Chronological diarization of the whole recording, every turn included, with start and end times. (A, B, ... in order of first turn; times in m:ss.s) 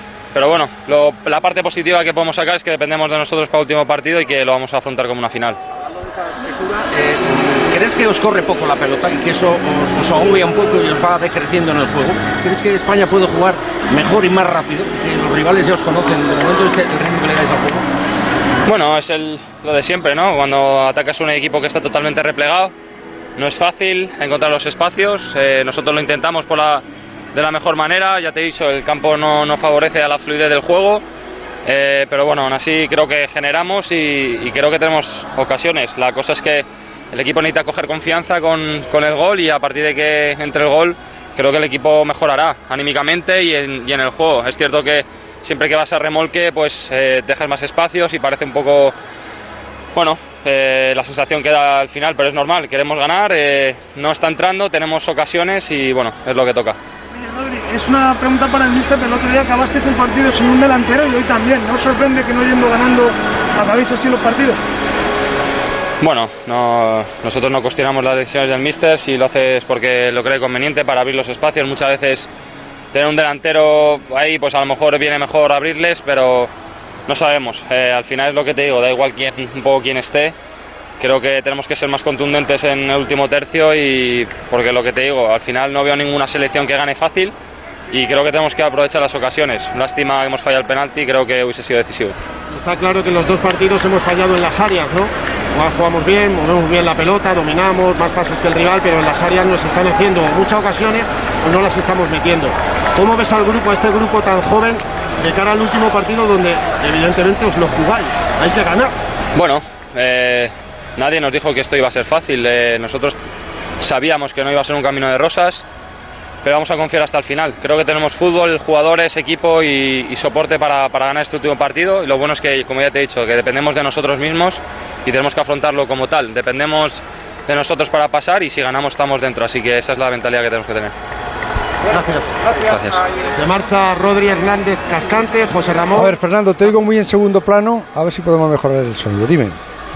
0:00.3-0:05.6 A
0:06.0-0:17.8 B
0:18.7-0:22.7 A
0:23.4-0:31.0 A
0:31.6-0:49.0 A
0:49.9-0:56.8 A
0:57.1-1:04.6 C
1:06.0-1:12.3 A
1:12.9-1:16.5 A
1:17.1-1:20.4 A
1:21.0-1:27.4 A
1:27.9-1:32.2 A
1:32.5-1:48.9 D
1:49.4-1:53.2 A
1:53.8-1:55.6 A
1:56.4-2:10.9 A
2:11.9-2:12.6 D
2:13.3-2:16.2 D
2:16.0-2:19.6 E